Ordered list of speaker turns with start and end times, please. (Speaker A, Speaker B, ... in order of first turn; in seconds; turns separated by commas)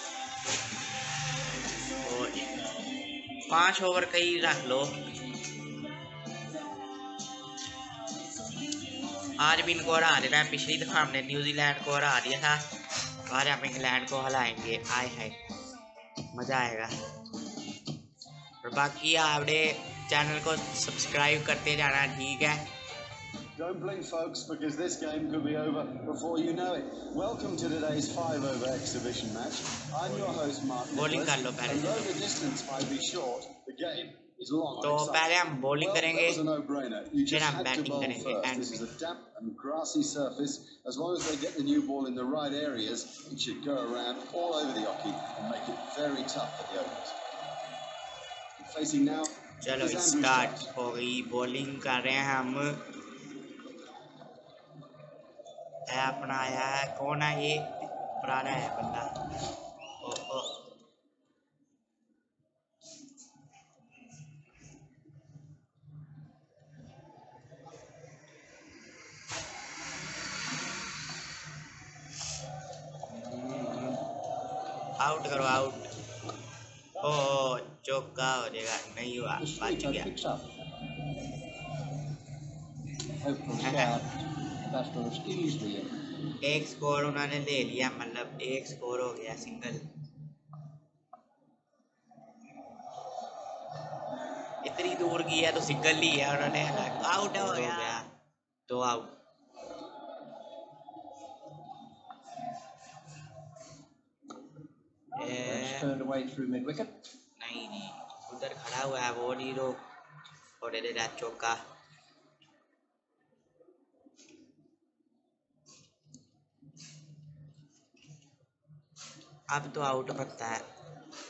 Speaker A: 2.0-2.6, Speaker A: 3.5-4.9, Speaker A: 9.4-12.6, Speaker A: 13.3-15.3, Speaker A: 16.3-16.9, Speaker A: 18.6-22.6, Speaker B: 23.6-47.2, Speaker A: 30.9-32.1, Speaker A: 34.8-36.4, Speaker A: 37.3-38.8, Speaker B: 48.6-50.7, Speaker A: 49.6-52.8, Speaker A: 55.9-57.7, Speaker A: 58.2-59.1, Speaker A: 60.0-60.5, Speaker A: 73.2-74.0, Speaker A: 75.0-75.8, Speaker A: 77.0-80.1, Speaker C: 79.4-80.5, Speaker C: 83.2-85.9, Speaker A: 83.6-84.0, Speaker A: 86.4-89.8, Speaker A: 94.6-98.1, Speaker C: 97.0-97.9, Speaker A: 98.7-99.1, Speaker A: 105.2-105.9, Speaker C: 105.2-106.9, Speaker A: 107.4-109.8, Speaker A: 110.6-111.6, Speaker A: 119.5-120.6